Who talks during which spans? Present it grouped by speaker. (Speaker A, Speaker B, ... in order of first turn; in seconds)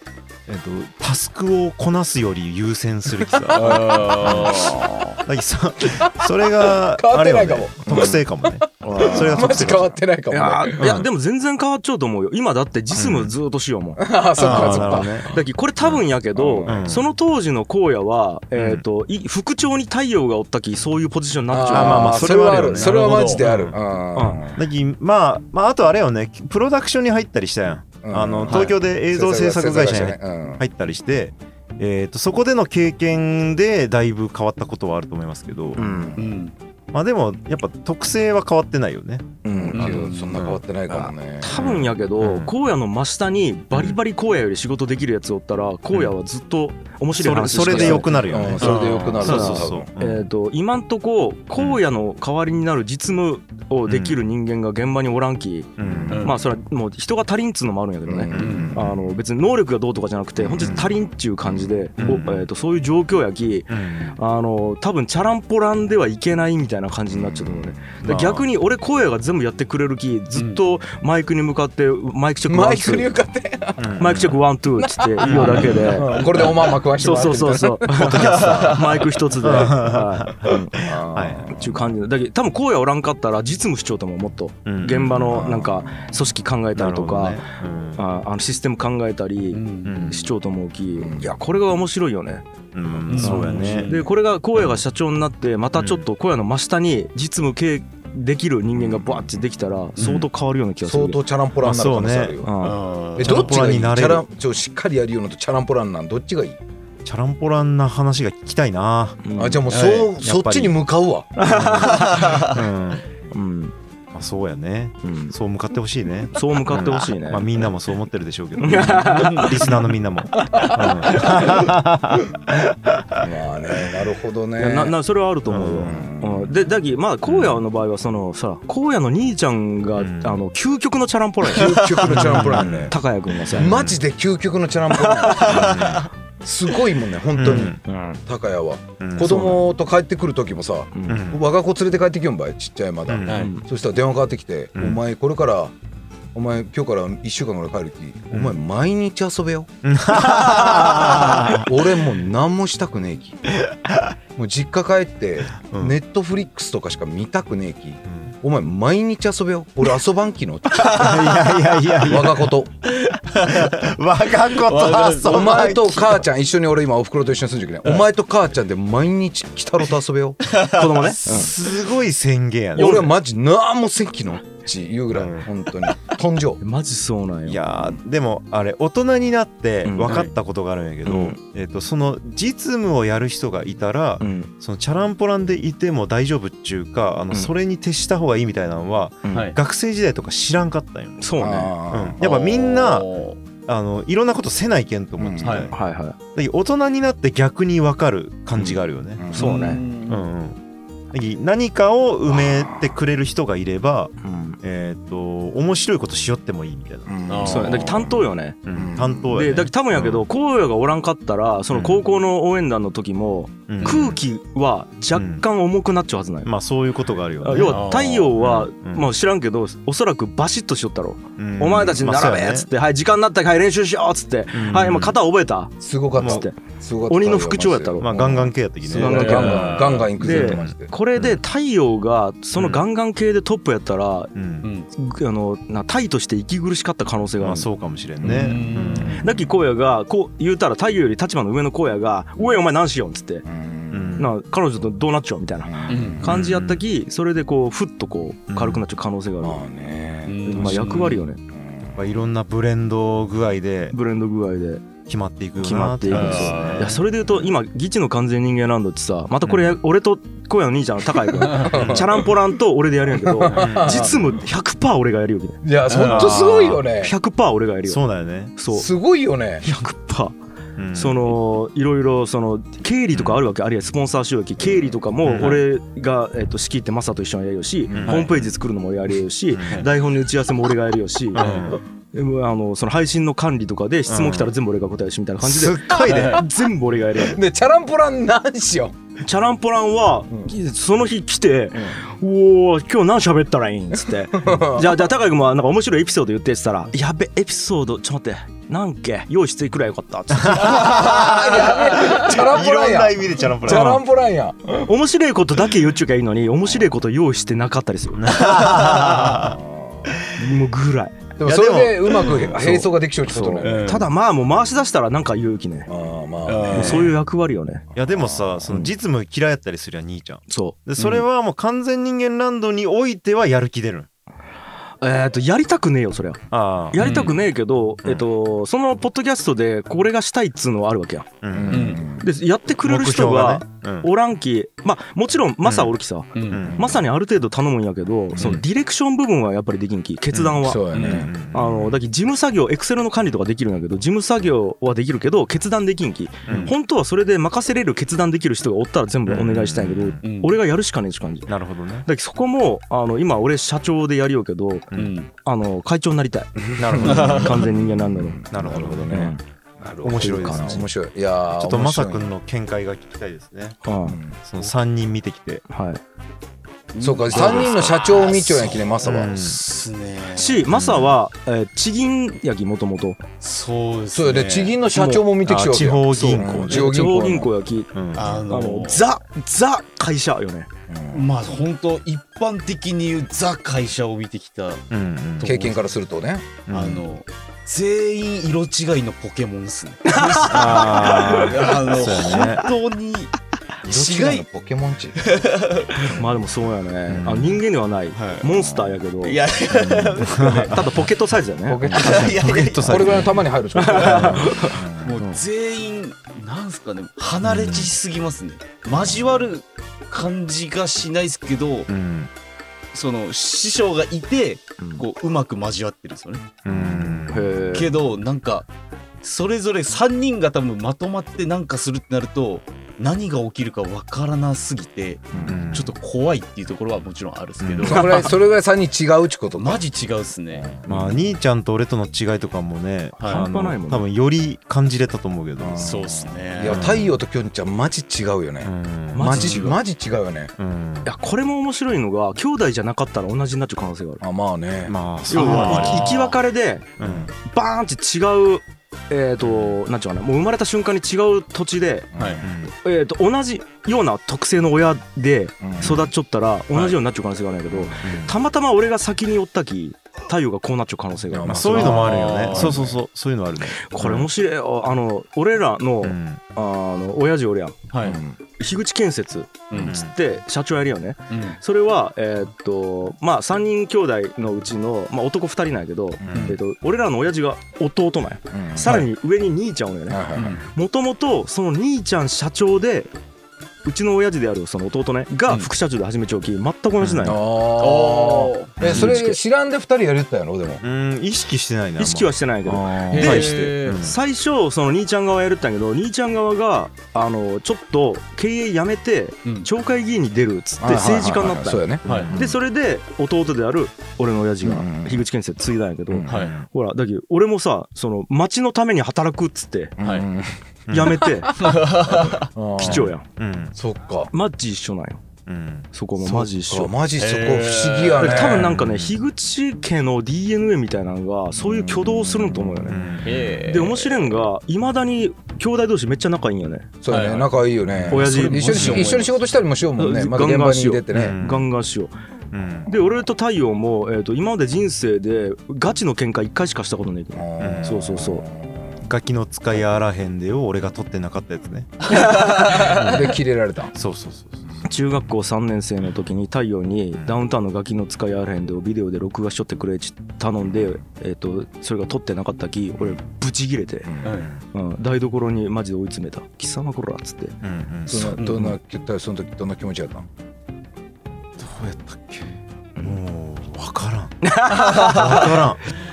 Speaker A: 0.5-9.9, 10.8-11.1, 12.9-13.3, 14.4-16.0, 16.6-17.0, 18.5-18.8, 21.7-23.8, 24.5-35.8, 36.9-40.6, 41.5-42.5, 43.7-44.0, 47.1-50.2, 51.5-51.8, 53.9-54.2, 55.8-56.3, 58.4-58.8, 60.6-60.9, 62.0-62.5, 63.7-64.2, 68.0-68.4, 73.8-74.4, 75.3-75.9, 78.2-78.5, 79.4-81.6, 84.7-85.6, 86.7-88.0, 89.8-90.3, 92.7-94.0, 94.5-94.8, 95.8-96.0, 101.6-102.4, 103.2-104.2, 107.0-109.2, 110.2-110.8, 111.4-113.0, 114.1-123.2, 125.5-126.0, 127.2-127.6, 130.0-130.4, 132.0-132.9, 133.5-134.0, 135.4-136.1, 137.3-137.8, 139.0-139.6, 141.1-141.4, 143.1-143.5, 144.8-145.0, 148.3-148.6, 149.8-151.9, 153.6-154.1, 155.6-156.0, 158.1-158.3, 160.8-162.5, 163.3-166.2, 171.2-173.1, 175.1-175.5, 177.4-191.2, 191.9-193.1, 193.6-195.7, 196.3-199.3, 200.0-200.6, 201.1-207.9, 208.6-210.2, 211.7-212.0, 213.7-214.2, 215.1-215.4, 216.4-219.1, 221.4-222.7, 224.5-225.2, 226.1-226.4, 228.0-229.7, 230.3-231.4, 232.6-232.8, 234.3-234.7, 237.4-239.2, 243.9-244.3, 246.2-246.8, 248.5-248.8, 251.9-253.9, 255.1-257.5, 259.4-259.8, 261.7-262.2, 263.5-264.2, 266.0-266.9, 267.9-268.6, 270.8-271.4, 273.1-273.4, 275.2-275.6, 277.9-278.5, 279.5-279.9, 281.3-281.8, 284.1-284.5, 285.4-286.4, 300.3-304.0, 308.2-309.6, 311.4-312.5, 317.9-324.1, 326.5-327.3, 331.4-332.0, 332.8-334.1, 335.6-335.9, 336.5-337.0, 338.3-338.6, 340.3-342.0, 346.5-346.7, 349.2-350.2, 351.5-352.1, 356.8-357.7, 358.5-359.3, 360.0-360.8, 361.5-363.8, 364.4-365.6, 369.0-369.6, 370.7-371.2, 375.4-377.1, 377.9-378.4, 384.9-385.5, 386.7-387.0, 390.4-392.7, 397.1-397.6, 400.4-401.0, 402.8-403.2, 404.1-404.7, 407.4-407.9, 411.9-412.3, 416.6-417.6, 425.4-425.9, 427.6-428.1, 430.9-435.9, 436.6-437.2, 438.6-439.5, 440.6-441.1, 444.9-446.2, 447.0-447.3, 449.4-449.8, 452.4-452.7, 455.8-456.1, 458.0-458.3, 461.4-464.3, 466.0-466.4, 469.8-470.1, 487.0-487.3, 488.8-489.2, 490.8-492.3, 493.1-494.2, 502.0-502.3, 506.3-506.7, 510.9-511.4, 512.8-513.7, 515.5-515.9, 518.5-519.2, 522.9-523.3, 527.9-528.2, 528.8-529.0, 531.1-531.6, 532.5-532.9, 537.6-538.1, 539.0-543.4, 543.9-544.8, 557.6-558.4, 561.6-562.5, 563.0-565.8
Speaker B: 3.4-4.7, 5.9-10.8, 14.0-15.3, 16.4-16.9, 21.5-24.6, 28.0-30.6, 35.8-36.2, 39.4-41.6, 47.6-49.9, 55.8-56.2, 58.0-59.0, 60.4-60.9, 67.1-67.9, 72.5-74.0, 74.8-78.8, 80.8-81.8, 85.3-86.1, 91.0-91.3, 98.8-99.1, 100.8-106.6, 109.3-111.3, 120.4-121.6, 122.5-124.9, 125.8-126.5, 131.5-132.9, 133.5-145.7, 146.3-149.7, 150.9-153.4, 154.3-161.4, 162.0-162.7, 165.2-170.4, 172.8-176.6, 191.4-192.2, 195.2-195.6, 199.2-199.5, 202.3-202.9, 207.1-208.1, 208.7-209.4, 225.8-230.9, 243.4-244.2, 245.6-246.3, 249.4-252.0, 261.3-262.3, 263.1-264.1, 265.6-267.1, 268.7-269.6, 287.2-288.9, 294.4-295.0, 300.8-304.9, 309.3-310.1, 311.4-313.8, 315.9-317.1, 317.9-318.7, 331.5-332.3, 340.6-341.3, 356.8-362.3, 364.1-364.4, 367.0-369.3, 374.1-377.5, 380.9-381.3, 385.4-386.5, 393.8-395.2, 396.1-396.4, 399.7-400.5, 401.7-405.1, 425.3-425.6, 427.8-429.8, 430.6-431.3, 435.6-440.5, 444.2-444.9, 452.1-452.5, 455.6-456.0, 457.7-458.0, 461.3-462.9, 468.0-468.4, 476.2-476.5, 478.5-479.0, 480.1-480.6, 487.2-490.8, 492.6-493.4, 500.8-502.6, 504.6-505.2, 510.0-510.6, 512.4-513.1, 513.7-514.3, 516.2-518.7, 521.6-523.0, 527.0-531.4, 537.3-539.0, 542.6-543.9, 554.0-554.4, 558.1-560.2
Speaker C: 3.5-5.2, 14.4-14.8, 22.5-23.4, 28.5-28.7, 36.1-36.5, 39.7-40.4, 48.6-49.3, 56.1-56.4, 58.3-58.8, 70.3-70.6, 75.2-76.4, 78.1-78.9, 89.5-90.1, 93.1-94.1, 100.0-100.2, 102.6-103.5, 109.7-110.1, 112.0-112.5, 119.1-119.7, 135.2-136.0, 143.2-143.5, 160.9-161.5, 162.9-163.8, 164.5-165.7, 170.5-171.1, 189.3-189.6, 192.2-193.4, 195.4-195.7, 199.3-200.3, 207.3-208.1, 213.8-214.1, 217.5-218.3, 229.0-230.2, 234.6-234.9, 238.2-239.2, 245.9-246.2, 250.2-251.2, 256.1-257.0, 265.9-266.4, 281.4-281.8, 286.1-286.4, 313.6-314.1, 316.4-317.1, 327.0-327.4, 331.7-332.1, 336.3-336.6, 340.9-341.2, 346.5-346.7, 350.2-350.6, 354.9-355.3, 357.0-357.6, 366.9-370.7, 373.4-374.8, 378.1-379.0, 381.1-384.8, 385.4-385.9, 386.7-393.3, 393.8-394.4, 395.2-396.1, 398.1-398.6, 399.2-400.8, 401.9-411.9, 412.9-416.6, 417.7-418.7, 419.2-428.3, 429.6-430.7, 433.2-433.4, 435.8-436.9, 439.3-439.8, 445.3-446.4, 452.2-452.4, 461.7-462.8, 467.9-468.2, 469.7-470.0, 471.3-471.6, 476.3-476.6, 480.3-480.6, 487.8-488.8, 493.1-494.0, 502.0-502.4, 506.2-506.6, 510.0-510.3, 511.5-512.5, 517.2-518.6, 523.2-524.3, 527.1-527.5, 528.1-529.4, 554.2-554.5, 558.3-558.8
Speaker D: 8.8-9.7, 10.3-14.0, 14.5-22.4, 24.1-24.4, 35.8-36.1, 40.9-55.7, 56.2-73.1, 74.0-80.8, 81.5-87.4, 88.0-92.4, 93.1-101.2, 102.4-102.8, 109.2-109.6, 111.4-112.5, 113.3-113.7, 115.0-115.3, 116.3-117.5, 118.6-119.7, 124.6-133.8, 135.3-135.6, 137.8-138.2, 139.2-139.6, 140.9-141.2, 143.3-143.6, 170.7-171.5, 172.8-173.1, 176.6-177.6, 179.8-180.3, 181.0-181.4, 184.2-184.5, 189.2-189.5, 191.2-191.7, 195.7-196.2, 199.3-199.8, 204.2-204.6, 207.4-208.6, 209.3-216.5, 217.4-226.6, 227.1-228.1, 228.9-234.3, 234.9-237.7, 238.2-238.5, 239.2-243.4, 244.2-249.6, 250.4-251.4, 253.9-254.8, 255.6-265.6, 267.0-268.0, 268.6-268.9, 269.6-270.4, 270.9-287.4, 289.2-301.1, 303.6-304.0, 304.8-308.5, 310.3-311.2, 312.3-315.9, 316.7-317.8, 320.5-321.2, 325.0-331.3, 332.2-351.5, 352.0-354.9, 355.4-358.4, 359.1-359.4, 360.1-360.9, 363.8-364.2, 365.7-366.0, 370.4-373.2, 374.9-377.9, 378.4-380.7, 390.1-391.5, 396.1-399.4, 400.3-403.1, 403.7-405.4, 417.3-417.9, 433.3-434.0, 439.1-439.8, 441.0-444.2, 445.3-452.1, 452.8-462.0, 463.7-467.9, 468.6-483.1, 483.8-487.4, 488.8-489.4, 492.0-509.9, 510.9-511.6, 512.8-513.2, 514.3-515.2, 515.9-516.9, 518.2-523.0, 523.6-526.9, 528.1-529.2, 530.0-532.1, 532.9-538.4, 544.8-554.1, 554.7-557.5, 564.4-565.5